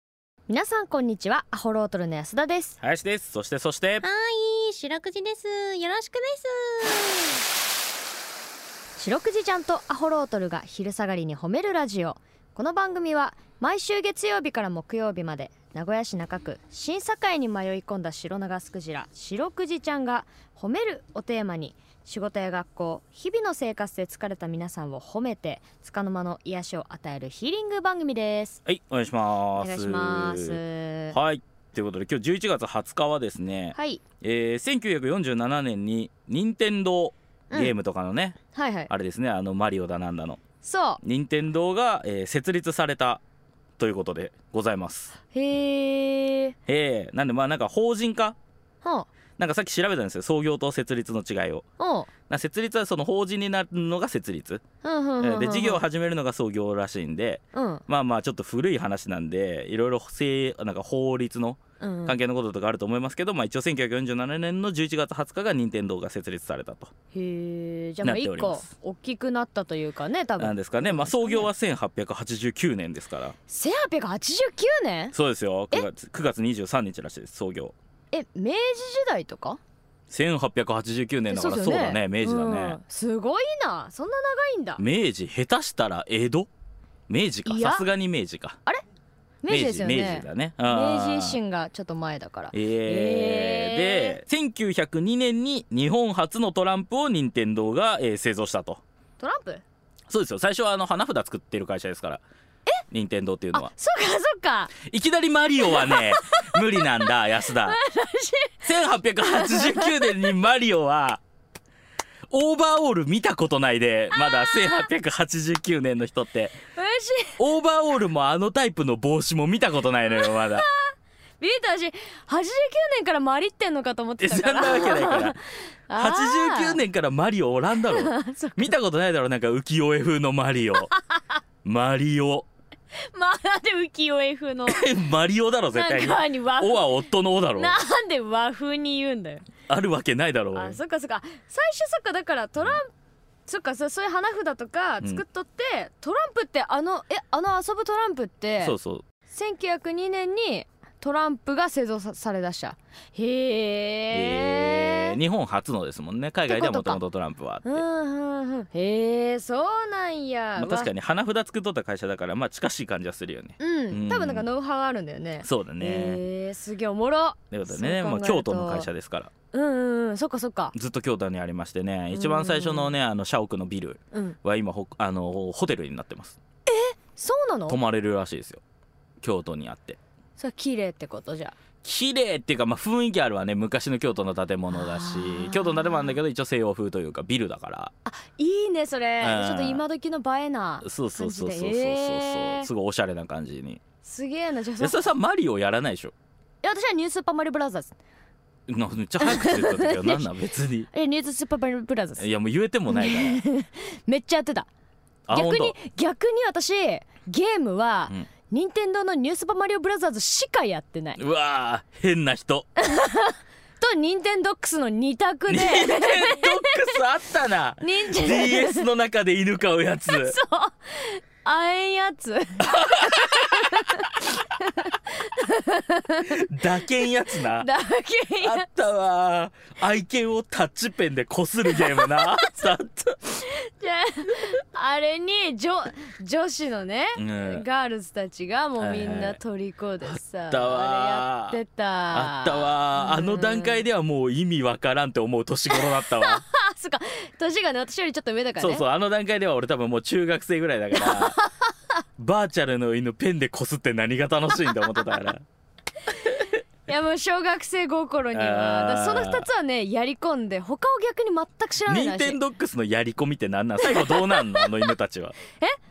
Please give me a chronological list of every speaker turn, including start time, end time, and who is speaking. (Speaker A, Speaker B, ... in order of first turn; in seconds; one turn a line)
Speaker A: 0.5-2.8
Speaker B: 2.8-4.0
Speaker C: 4.0-7.4
Speaker A: 9.0-28.6
Speaker B: 28.7-40.4
Speaker A: 29.6-31.2
Speaker A: 33.7-34.0
Speaker A: 38.5-38.9
Speaker A: 40.6-41.0
Speaker B: 41.0-43.2
Speaker B: 43.8-45.1
Speaker A: 45.3-46.5
Speaker B: 46.7-48.4
Speaker A: 48.8-49.1
Speaker B: 49.4-51.6
Speaker A: 51.8-52.1
Speaker B: 52.3-54.6
Speaker A: 54.8-55.8
Speaker B: 55.2-66.9
Speaker A: 57.5-57.8
Speaker A: 61.8-62.2
Speaker A: 67.1-71.5
Speaker B: 68.0-68.7
Speaker B: 70.4-73.3
Speaker A: 73.5-75.2
Speaker B: 75.1-77.7
Speaker A: 78.1-79.6
Speaker B: 80.1-82.8
Speaker A: 81.3-84.8
Speaker B: 84.8-86.5
Speaker B: 87.1-88.6
Speaker A: 87.5-87.9
Speaker A: 89.4-94.2
Speaker B: 89.5-91.4
Speaker B: 92.5-98.8
Speaker A: 99.2-99.6
Speaker B: 100.1-102.2
Speaker B: 102.9-103.7
Speaker A: 103.5-104.7
Speaker B: 104.8-107.8
Speaker A: 105.7-107.1
Speaker A: 107.6-108.7
Speaker B: 108.6-111.2
Speaker A: 109.2-110.3
Speaker B: 112.3-116.6
Speaker A: 114.1-114.9
Speaker A: 116.8-117.4
Speaker B: 117.4-120.7
Speaker A: 120.2-126.8
Speaker B: 124.2-125.4
Speaker B: 125.9-130.9
Speaker A: 127.9-128.7
Speaker B: 131.7-132.5
Speaker A: 133.1-134.8
Speaker B: 134.7-137.8
Speaker A: 135.7-137.0
Speaker A: 137.5-139.5
Speaker B: 139.7-140.8
Speaker A: 140.5-142.9
Speaker A: 143.5-148.8
Speaker B: 148.6-149.0
Speaker A: 149.3-155.2
Speaker B: 154.1-157.8
Speaker A: 156.5-157.0
Speaker A: 157.6-160.9
Speaker B: 160.6-164.5
Speaker A: 163.6-168.9
Speaker B: 165.4-166.2
Speaker B: 167.5-169.3
Speaker A: 169.5-170.7
Speaker B: 170.7-176.4
Speaker A: 172.1-172.9
Speaker A: 176.7-177.8
Speaker B: 177.7-178.6
Speaker B: 179.2-180.0
Speaker A: 180.4-181.6
Speaker B: 181.8-187.9
Speaker A: 184.7-186.2
Speaker A: 188.1-192.7
Speaker B: 189.2-189.8
Speaker B: 190.8-193.8
Speaker A: 194.0-195.0
Speaker B: 194.8-196.1
Speaker A: 196.6-197.9
Speaker B: 198.7-200.9
Speaker A: 199.2-200.3
Speaker A: 200.9-202.3
Speaker B: 202.2-203.4
Speaker A: 202.9-204.7
Speaker B: 205.3-205.8
Speaker A: 205.3-211.2
Speaker B: 211.2-212.7
Speaker A: 212.8-217.0
Speaker B: 215.5-220.4
Speaker A: 217.8-218.9
Speaker A: 220.1-226.4
Speaker B: 222.6-223.9
Speaker B: 226.3-227.7
Speaker A: 227.6-228.7
Speaker B: 228.4-233.2
Speaker A: 231.7-232.7
Speaker A: 233.4-243.8
Speaker B: 237.2-237.7
Speaker B: 238.8-239.4
Speaker B: 240.1-241.6
Speaker B: 242.1-246.4
Speaker A: 245.7-248.8
Speaker B: 248.6-251.4
Speaker A: 250.9-251.7
Speaker B: 252.2-255.4
Speaker A: 256.9-262.4
Speaker B: 258.3-259.5
Speaker B: 261.9-265.3
Speaker A: 263.8-264.7